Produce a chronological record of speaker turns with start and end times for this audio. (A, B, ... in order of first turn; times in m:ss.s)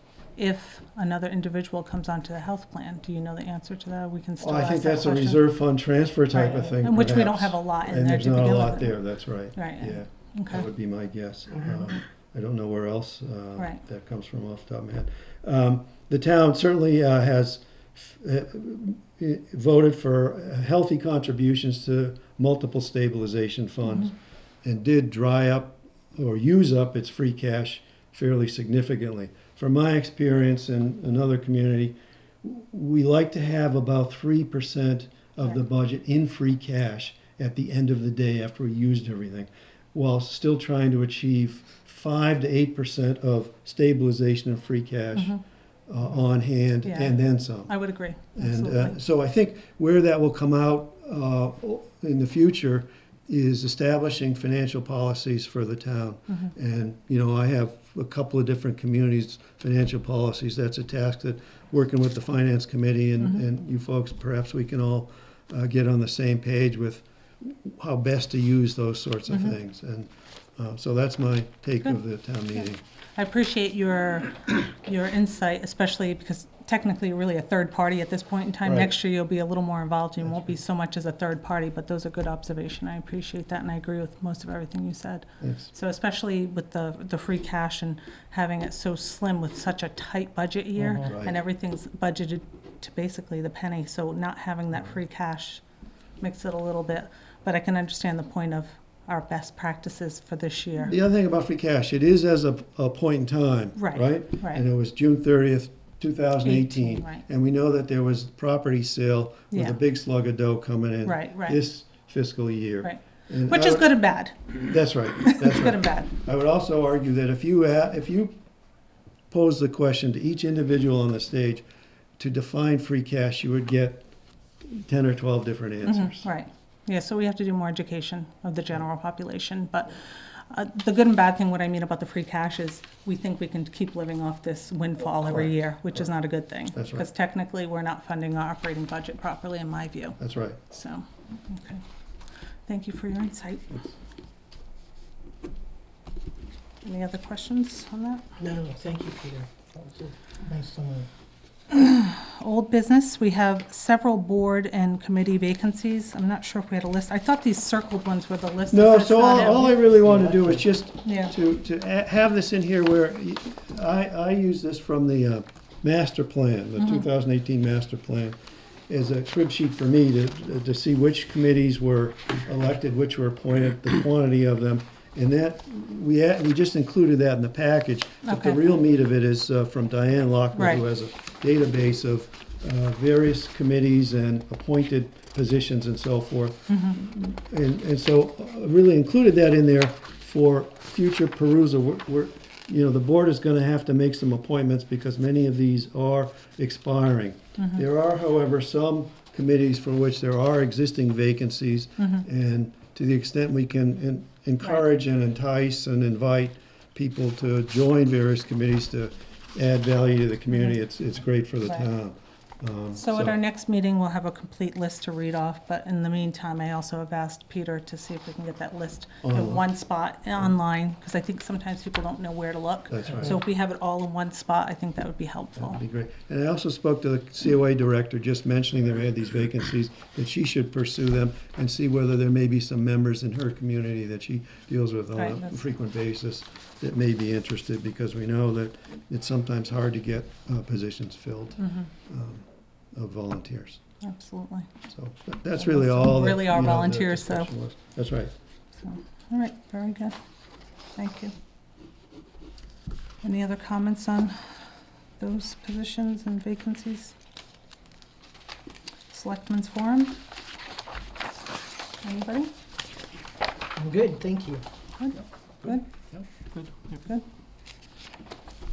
0:00.4-0:05.4 A
0:04.4-0:45.4 B
0:06.3-0:09.0 A
0:09.5-0:10.6 A
0:45.1-0:45.4 A
0:45.9-0:47.7 B
0:46.8-0:47.1 A
0:47.7-0:49.0 A
0:48.4-1:12.8 B
1:13.1-1:35.6 A
1:18.6-1:18.9 B
1:20.2-1:20.6 B
1:25.4-1:25.7 B
1:31.0-1:31.4 B
1:36.2-1:40.9 A
1:40.8-1:53.9 B
1:43.7-1:44.6 A
1:46.4-1:47.2 A
1:49.5-1:49.8 A
1:51.0-1:51.6 A
1:52.8-1:54.6 A
1:54.6-1:58.3 B
1:55.2-1:56.1 A
1:59.3-2:01.6 B
2:02.2-2:04.0 B
2:04.6-2:06.3 B
2:05.8-2:20.2 A
2:16.7-2:17.0 B
2:20.2-2:20.6 B
2:20.7-2:21.8 A
2:22.7-2:23.8 A
2:26.8-2:28.2 A
2:28.4-2:31.1 C
2:31.7-2:39.8 A
2:38.7-2:48.4 B
2:39.7-2:40.6 C
2:41.0-2:41.3 A
2:48.9-3:33.4 B
2:58.2-2:58.6 A
3:00.5-3:00.8 A
3:06.7-3:07.0 A
3:32.9-3:45.8 A
3:39.2-3:39.7 B
3:42.9-3:43.4 B
3:45.6-4:03.8 B
3:55.1-3:55.6 A
4:01.6-4:01.9 A
4:04.0-4:04.7 A
4:04.9-4:08.3 B
4:05.5-4:07.5 A
4:08.8-4:10.2 A
4:11.0-4:11.3 A
4:13.2-4:14.4 A
4:15.2-4:17.1 A
4:19.1-4:20.2 A
4:22.0-4:22.5 A
4:23.8-4:24.6 C
4:25.0-4:25.8 A
4:26.9-4:27.2 A